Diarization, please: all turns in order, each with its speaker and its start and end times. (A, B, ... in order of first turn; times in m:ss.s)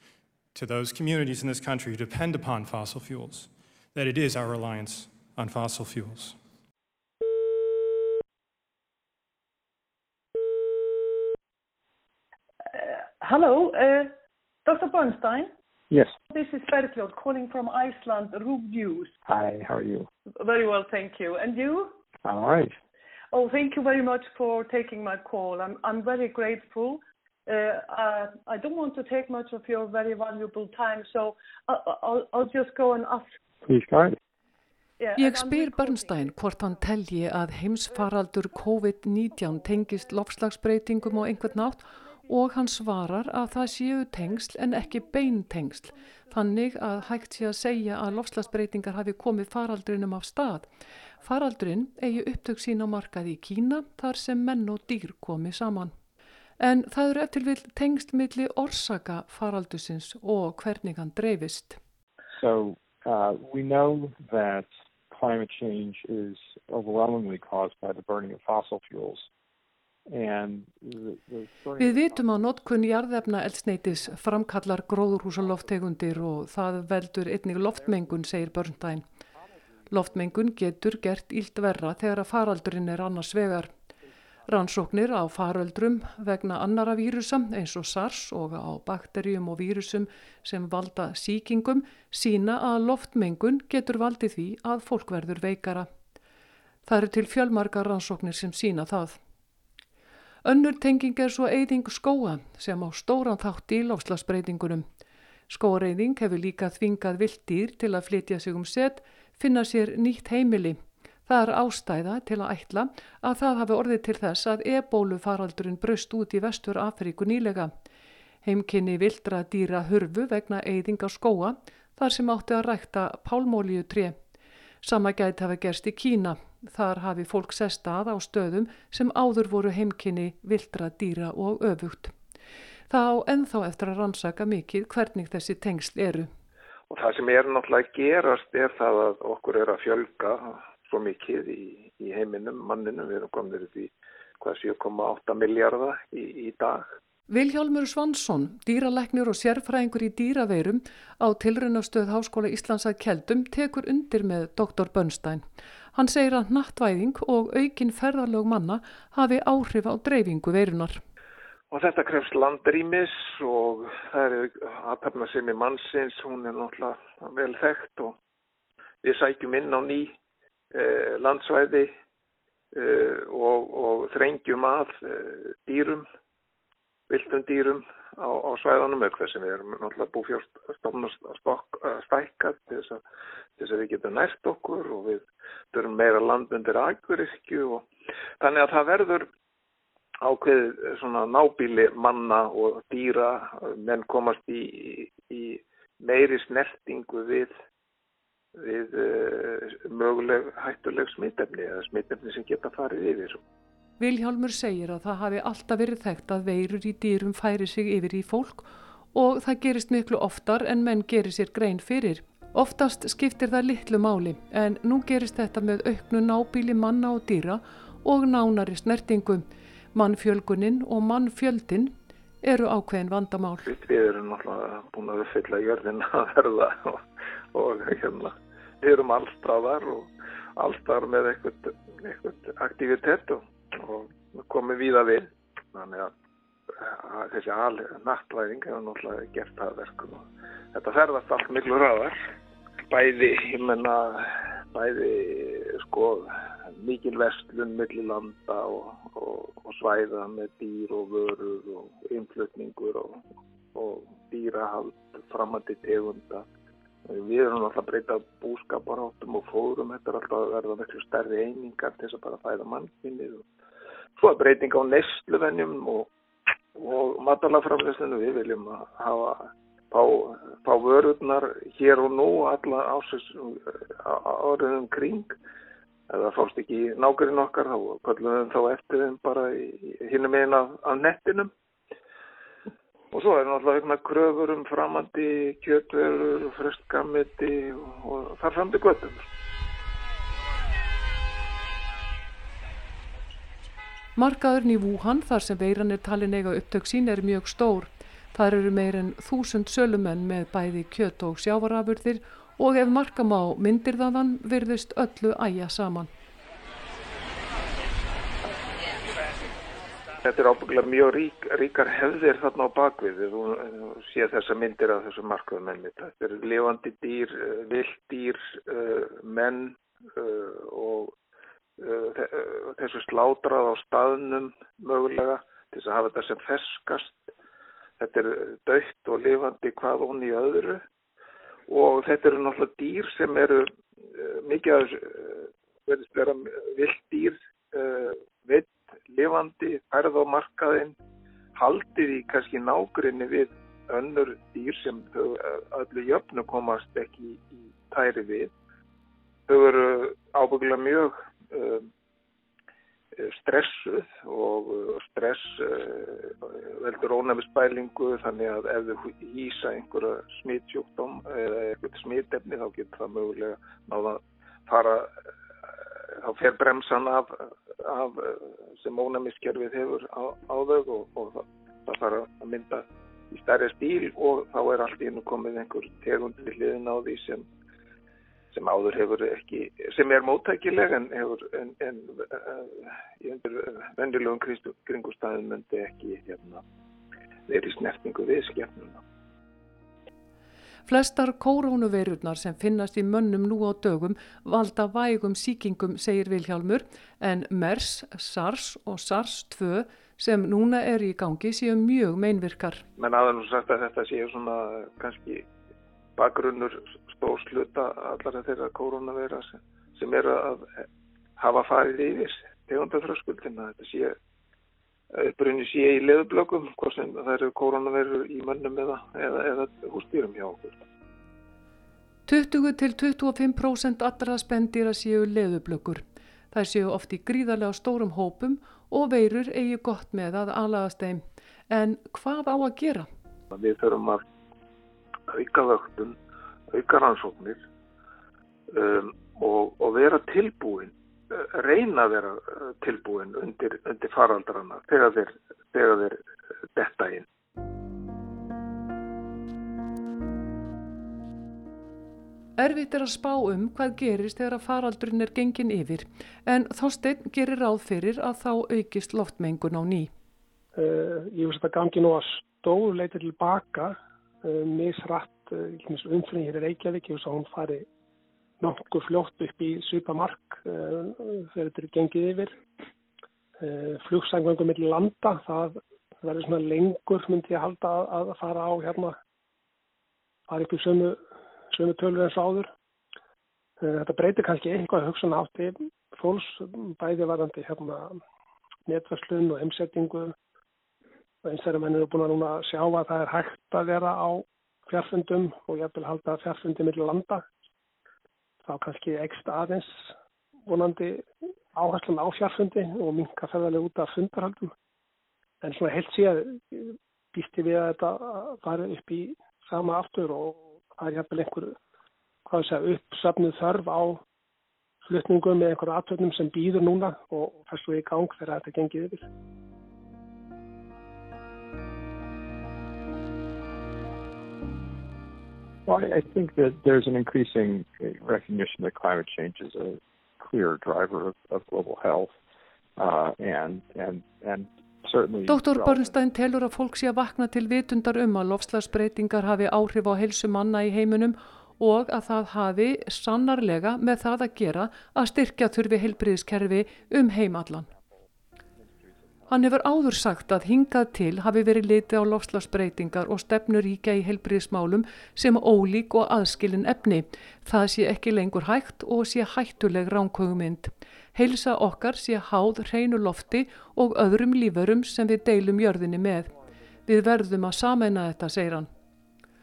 0:00.5-0:06.4 A
0:12.7-0:14.1 B
0:14.6-0:15.5 B
0:16.3-0:19.1 B
0:19.2-0:20.1 C
0:20.4-0:21.9 B
0:22.2-0:22.8 C
0:23.3-0:33.4 B
0:33.6-0:34.2 C
0:35.0-0:36.3 B
0:35.2-0:50.7 D
0:51.2-0:55.9 D
0:56.6-1:01.8 D
1:02.4-1:09.3 C
1:10.1-1:12.2 C
1:11.8-1:19.0 D
1:19.9-1:23.7 D
1:24.5-1:35.9 D
1:36.8-1:39.2 D
1:40.4-1:44.8 D
1:45.5-1:57.7 D
1:58.4-2:04.2 D
2:04.8-2:12.1 D
2:12.9-2:16.3 D
2:16.9-2:27.0 E
2:27.3-2:41.0 D
2:41.7-2:48.1 E
2:49.0-2:50.1 E
2:50.7-2:51.9 E
2:52.7-2:56.1 E
2:57.1-3:03.0 E
3:03.6-3:07.8 E
3:08.4-3:09.3 E
3:10.2-3:17.5 E
3:18.6-3:23.4 E
3:24.0-3:43.7 D
3:43.6-3:47.0 E
3:47.5-3:56.1 E
3:56.8-4:02.2 E
4:02.9-4:13.2 E
4:13.7-4:16.4 E
4:17.1-4:23.4 E
4:24.2-4:26.1 E
4:26.7-4:35.3 E
4:36.1-4:41.5 E
4:43.1-4:49.2 E
4:54.2-5:06.1 D
5:10.2-5:21.1 E
5:21.8-5:27.3 E
5:28.0-5:30.8 E
5:31.7-5:40.9 E
5:41.6-5:48.5 E
5:49.5-5:51.9 E
5:53.2-6:05.1 E
6:06.1-6:17.4 E
6:18.5-6:26.6 E
6:27.5-6:29.0 E
6:30.8-6:42.8 D
6:43.0-6:45.5 E
6:46.2-6:50.8 E
6:51.4-6:54.2 E
6:55.1-7:00.8 E
7:02.3-7:13.1 D
7:13.5-7:14.2 E
7:15.3-7:16.2 E
7:16.7-7:17.6 E
7:18.7-7:26.2 E
7:26.7-7:27.2 E
7:32.6-7:40.1 D
7:40.8-7:47.8 F
7:48.6-7:52.6 F
7:53.6-7:59.2 F
8:00.5-8:01.2 F
8:01.7-8:02.7 F
8:03.8-8:08.2 F
8:08.9-8:10.3 F
8:11.4-8:17.4 F
8:18.6-8:20.1 F
8:20.6-8:24.7 F
8:25.6-8:31.8 F
8:32.4-8:34.2 F
8:35.0-8:39.3 F
8:45.8-8:52.4 C
8:53.0-8:56.1 C
8:55.5-9:07.9 D
9:09.5-9:26.5 D
9:27.0-9:28.9 D